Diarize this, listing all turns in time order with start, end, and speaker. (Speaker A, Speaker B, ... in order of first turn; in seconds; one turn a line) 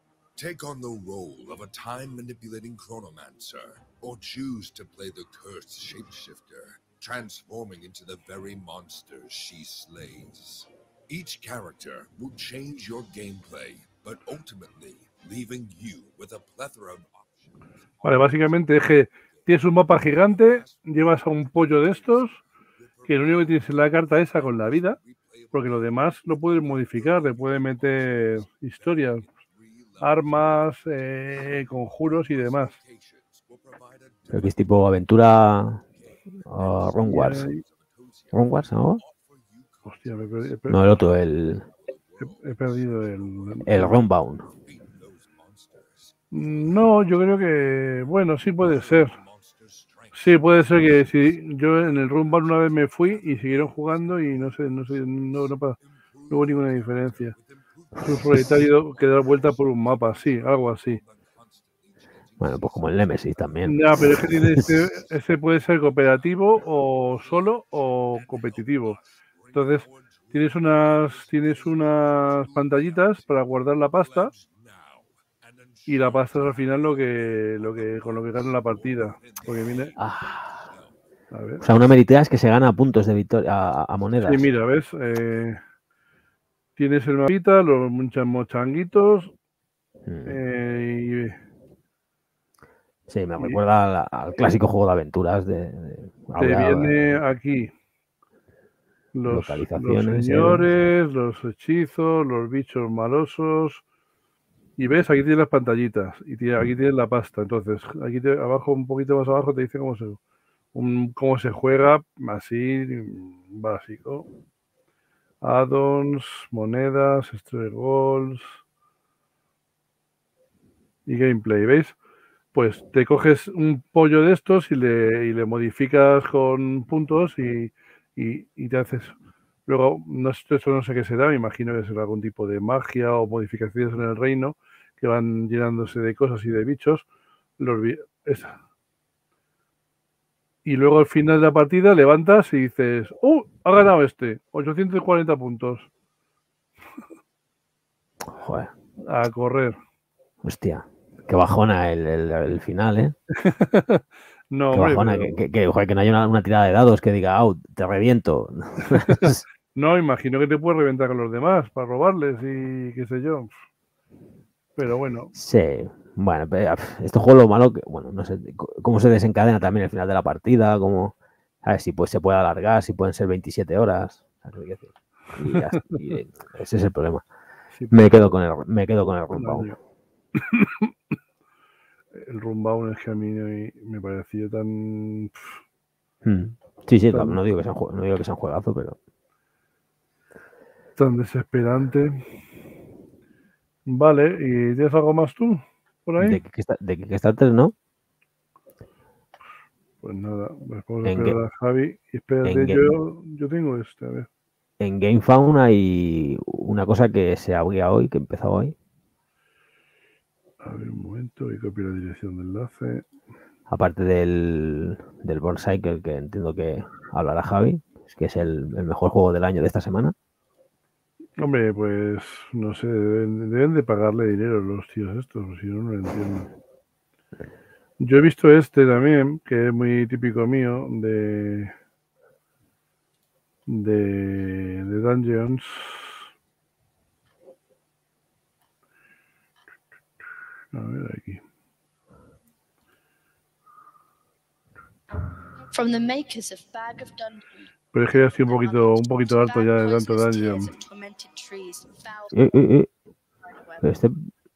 Speaker A: 0.3-81.0
Speaker B: 18.0-22.4
Speaker B: 23.1-25.0
Speaker B: 25.5-29.2
Speaker B: 30.0-32.8
Speaker C: 34.3-35.8
Speaker C: 36.5-37.5
Speaker B: 37.0-37.6
Speaker C: 38.3-39.0
Speaker B: 39.8-41.0
Speaker C: 40.7-41.6
Speaker B: 42.3-44.0
Speaker C: 43.6-44.5
Speaker B: 46.3-49.1
Speaker B: 50.1-55.8
Speaker B: 56.3-57.4
Speaker B: 58.0-61.0
Speaker C: 62.4-64.8
Speaker B: 63.6-69.0
Speaker B: 69.5-74.3
Speaker B: 75.9-79.9
Speaker C: 80.0-80.5
Speaker B: 81.3-81.6
Speaker C: 81.6-84.4
Speaker B: 84.2-85.6
Speaker A: 85.1-85.4
Speaker B: 86.8-89.3
Speaker C: 90.0-90.4
Speaker B: 90.2-91.4
Speaker C: 93.1-97.2
Speaker B: 96.4-97.7
Speaker B: 99.1-103.8
Speaker C: 99.3-100.7
Speaker B: 104.8-110.2
Speaker B: 110.7-114.3
Speaker B: 115.4-118.6
Speaker B: 121.1-121.9
Speaker B: 122.5-129.1
Speaker B: 129.7-137.0
Speaker B: 137.6-138.5
Speaker B: 140.6-145.9
Speaker C: 148.3-148.7
Speaker B: 149.1-149.8
Speaker C: 150.4-153.1
Speaker B: 153.4-155.4
Speaker C: 154.7-159.4
Speaker B: 159.8-163.5
Speaker B: 164.8-165.3
Speaker C: 165.3-177.2
Speaker B: 177.8-178.3
Speaker C: 177.9-179.7
Speaker B: 179.3-179.8
Speaker B: 180.4-180.9
Speaker B: 182.2-185.5
Speaker C: 186.2-189.0
Speaker B: 187.1-187.4
Speaker B: 191.0-192.2
Speaker B: 193.9-196.4
Speaker C: 196.2-197.7
Speaker B: 200.0-204.3
Speaker C: 201.0-201.4
Speaker C: 202.4-202.9
Speaker C: 204.8-208.7
Speaker B: 210.6-213.1
Speaker C: 213.7-220.1
Speaker B: 221.4-226.5
Speaker B: 228.0-231.7
Speaker B: 233.7-236.2
Speaker B: 240.7-241.4
Speaker D: 245.7-252.5
Speaker B: 247.9-250.7
Speaker C: 252.3-252.9
Speaker D: 253.4-254.0
Speaker C: 253.8-254.2